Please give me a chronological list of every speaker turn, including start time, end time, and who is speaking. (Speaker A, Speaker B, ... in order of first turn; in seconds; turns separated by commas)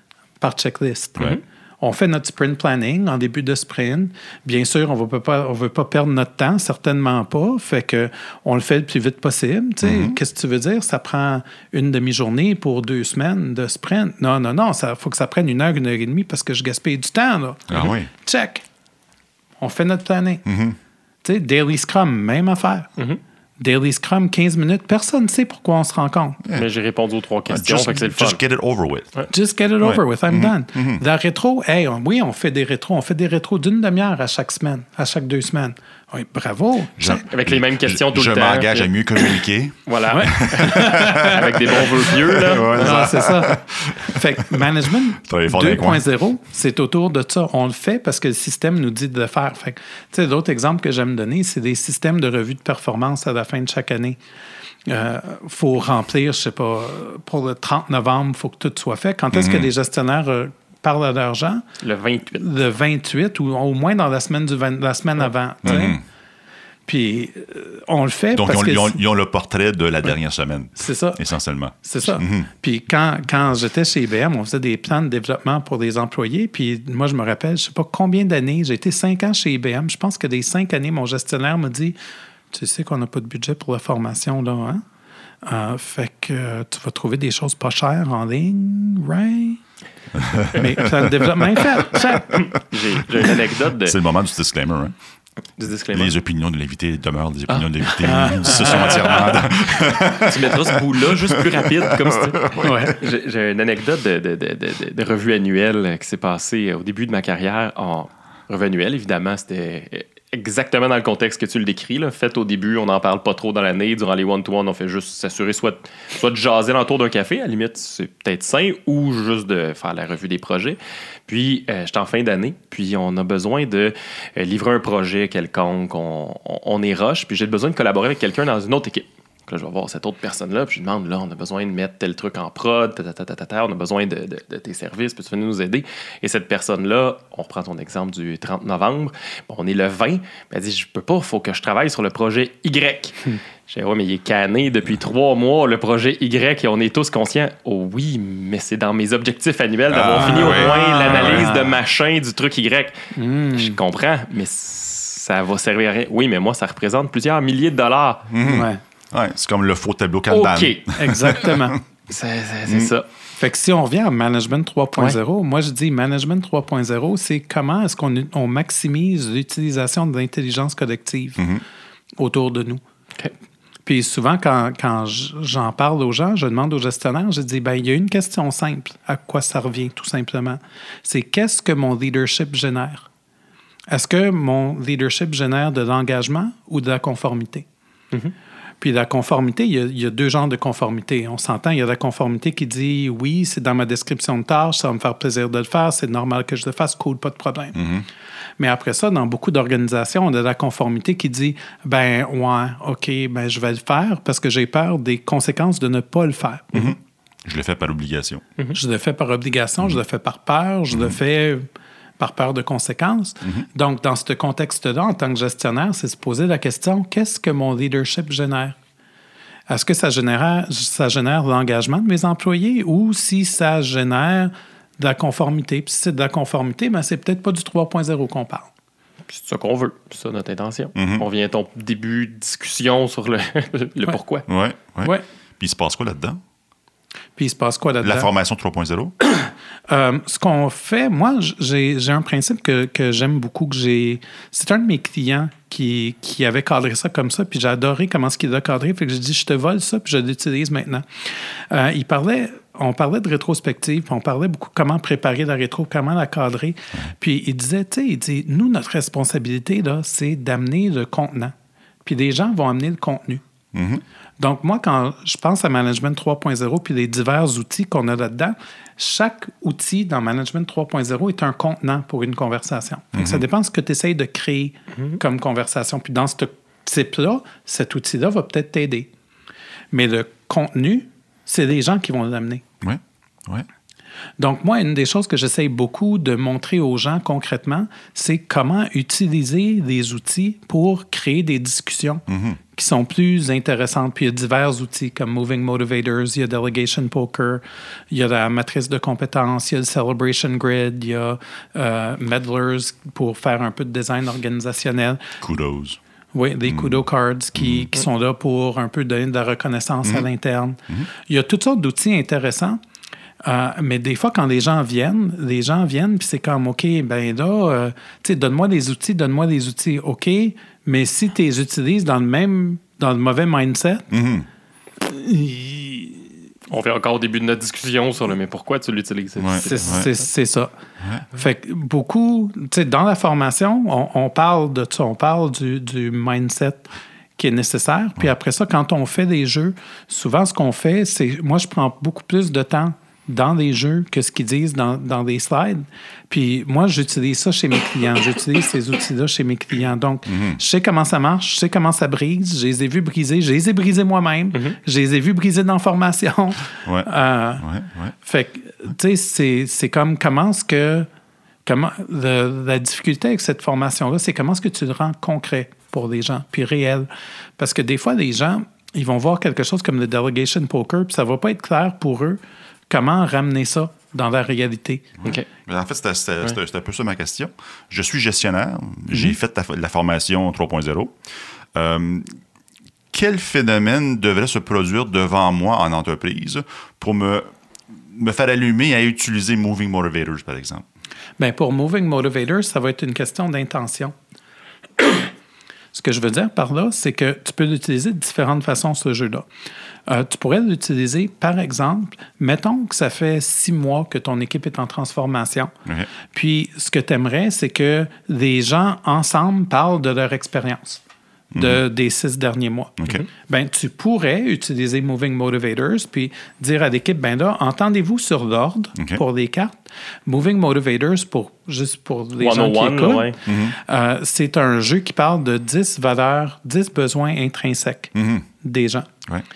Speaker A: 0.4-18.6, Speaker B: 9.8-10.2, Speaker B: 17.7-18.1, Speaker A: 19.6-20.4, Speaker B: 20.4-20.8, Speaker A: 21.2-22.9, Speaker A: 23.6-26.4, Speaker C: 26.5-28.4, Speaker B: 27.5-29.1, Speaker A: 29.3-37.2, Speaker B: 29.8-31.0, Speaker B: 37.0-41.4, Speaker C: 37.3-43.1, Speaker A: 40.1-41.4, Speaker B: 42.3-46.1, Speaker A: 42.7-54.2, Speaker A: 54.9-61.6, Speaker B: 59.3-59.7, Speaker C: 61.8-62.4, Speaker A: 62.4-66.0, Speaker B: 65.6-66.0, Speaker A: 66.9-69.0, Speaker B: 68.3-72.5, Speaker A: 70.8-71.2, Speaker A: 71.8-82.0, Speaker A: 82.5-84.8, Speaker A: 85.4-89.6, Speaker B: 90.2-91.1, Speaker A: 90.5-92.5, Speaker C: 92.5-94.0, Speaker B: 93.8-95.0, Speaker C: 95.6-96.1, Speaker B: 95.9-100.4, Speaker C: 97.5-158.3, Speaker A: 98.0-98.9, Speaker B: 101.5-102.7, Speaker A: 102.6-103.0, Speaker B: 149.9-151.8, Speaker A: 150.2-151.6, Speaker A: 153.2-153.8, Speaker B: 158.3-161.8, Speaker A: 158.4-158.8, Speaker C: 160.3-160.8, Speaker A: 160.9-161.8, Speaker C: 162.1-163.1, Speaker A: 163.3-171.5, Speaker B: 171.4-171.6, Speaker A: 172.2-172.8, Speaker A: 173.8-183.1, Speaker A: 183.9-187.7, Speaker A: 188.8-197.8, Speaker B: 197.8-198.1, Speaker A: 198.6-207.0, Speaker B: 206.7-208.4, Speaker A: 208.7-211.7, Speaker A: 212.2-218.8, Speaker A: 219.7-228.7, Speaker C: 229.3-234.4, Speaker B: 231.0-231.3, Speaker B: 234.5-236.4, Speaker A: 237.4-238.3, Speaker B: 238.0-239.1, Speaker A: 239.9-263.4, Speaker B: 263.7-264.0, Speaker A: 264.4-279.1, Speaker B: 273.1-273.4, Speaker A: 279.9-282.6, Speaker B: 282.8-283.7, Speaker A: 284.4-305.2, Speaker B: 292.3-292.6, Speaker B: 305.4-306.0, Speaker A: 306.3-312.8, Speaker B: 306.7-307.0, Speaker B: 307.6-307.9, Speaker A: 313.4-324.1, Speaker B: 324.1-324.5, Speaker A: 325.0-326.3, Speaker C: 326.7-330.1, Speaker B: 329.4-330.1, Speaker A: 329.6-330.7, Speaker B: 331.0-331.3, Speaker A: 331.3-357.7, Speaker B: 350.3-350.6, Speaker B: 356.9-358.1, Speaker A: 358.2-361.1, Speaker A: 361.6-375.1, Speaker B: 375.3-381.1, Speaker B: 381.8-382.3, Speaker B: 383.1-387.5, Speaker B: 388.1-390.8, Speaker A: 391.4-394.1, Speaker A: 395.9-399.5, Speaker A: 400.1-405.7, Speaker A: 406.3-411.0, Speaker B: 411.5-411.8, Speaker A: 411.5-429.1, Speaker B: 413.0-413.2, Speaker B: 419.0-419.2, Speaker C: 422.4-423.4, Speaker B: 423.5-423.8, Speaker B: 428.1-428.5